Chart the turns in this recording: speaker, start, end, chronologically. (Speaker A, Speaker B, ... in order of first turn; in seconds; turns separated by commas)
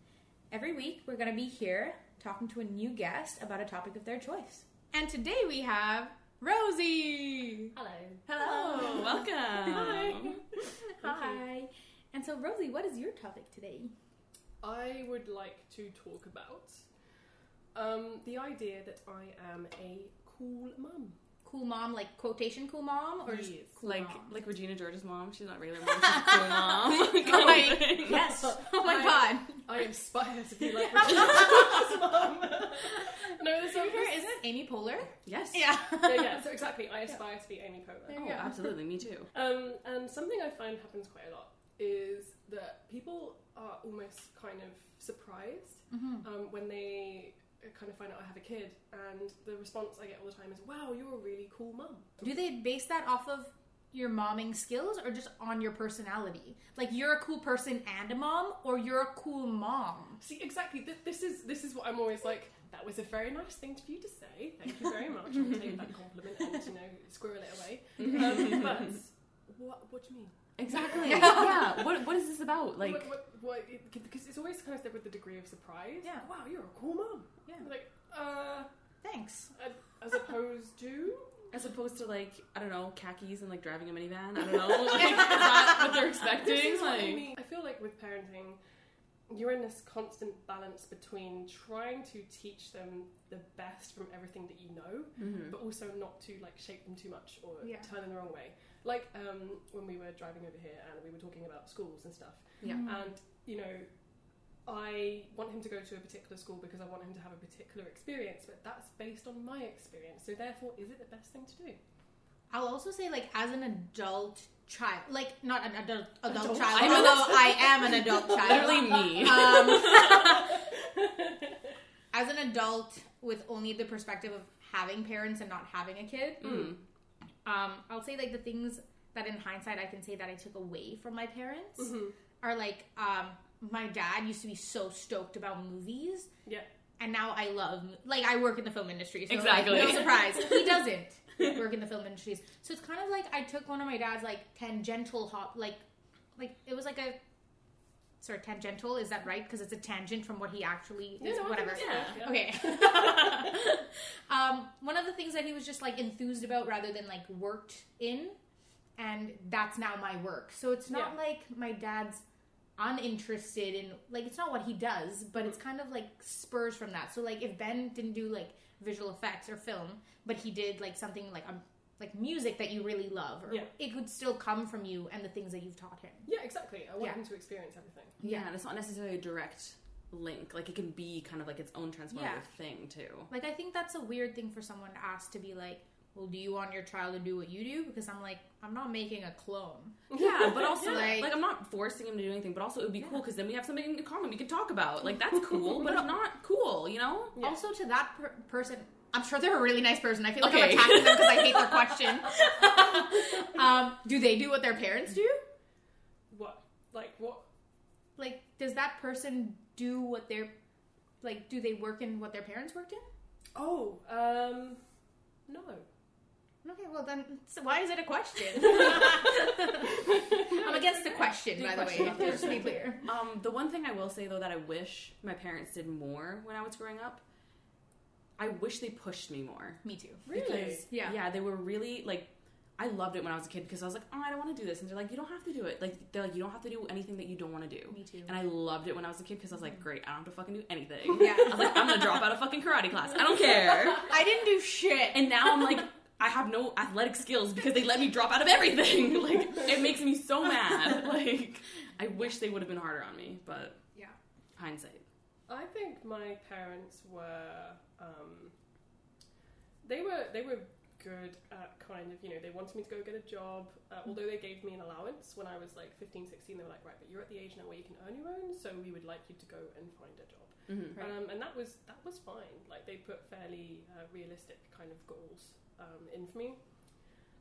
Speaker A: 0.5-7.7, Speaker B: 7.8-10.3, Speaker C: 8.3-10.4, Speaker A: 8.3-13.9, Speaker B: 11.0-11.4, Speaker B: 14.6-16.9, Speaker B: 17.7-21.2, Speaker A: 21.4-24.3, Speaker B: 23.2-23.7, Speaker C: 23.8-28.4, Speaker A: 26.1-29.6, Speaker B: 28.0-34.2, Speaker A: 30.8-31.8, Speaker A: 33.6-36.5, Speaker C: 35.3-35.7, Speaker B: 36.0-38.5, Speaker A: 38.1-38.7, Speaker C: 38.1-39.3, Speaker B: 39.3-52.3, Speaker A: 45.9-46.3, Speaker A: 52.2-60.2, Speaker B: 60.2-70.4, Speaker C: 68.0-68.8, Speaker C: 70.6-73.1, Speaker B: 70.9-71.7, Speaker A: 71.0-71.7, Speaker B: 72.8-78.7, Speaker A: 79.0-79.5, Speaker B: 79.5-81.5, Speaker C: 81.5-87.3, Speaker B: 86.3-88.6, Speaker B: 89.3-103.9, Speaker C: 95.2-95.6, Speaker A: 97.6-97.9, Speaker C: 102.6-102.9, Speaker A: 102.6-103.1, Speaker B: 104.7-111.8, Speaker A: 112.5-120.6, Speaker B: 116.4-121.6, Speaker C: 116.5-120.3, Speaker A: 122.1-126.7, Speaker C: 126.4-126.8, Speaker B: 126.4-126.7, Speaker A: 127.5-136.3, Speaker B: 131.8-132.1, Speaker A: 137.0-145.8, Speaker C: 139.3-140.8, Speaker A: 146.4-147.2, Speaker A: 148.2-158.4, Speaker B: 151.2-153.4, Speaker C: 151.7-152.2, Speaker A: 159.0-162.2, Speaker B: 160.9-161.2, Speaker A: 162.8-176.3, Speaker B: 176.3-178.2, Speaker A: 178.2-178.5, Speaker C: 178.2-183.3, Speaker A: 182.1-182.4, Speaker A: 183.3-191.3, Speaker B: 190.1-191.2, Speaker C: 190.1-197.3, Speaker A: 197.4-205.4, Speaker C: 200.4-202.0, Speaker B: 206.3-207.5, Speaker A: 208.2-210.5, Speaker A: 211.2-213.1, Speaker B: 213.6-214.8, Speaker B: 215.5-215.9, Speaker A: 216.6-223.0, Speaker B: 220.0-222.9, Speaker C: 221.6-227.2, Speaker C: 228.4-244.1, Speaker A: 229.8-230.2, Speaker B: 230.3-230.9, Speaker A: 230.9-231.2, Speaker A: 237.9-238.3, Speaker A: 241.1-242.1, Speaker A: 244.0-245.6, Speaker C: 245.1-253.8, Speaker C: 254.6-255.0, Speaker B: 255.5-258.5, Speaker B: 259.8-276.6, Speaker C: 270.7-271.1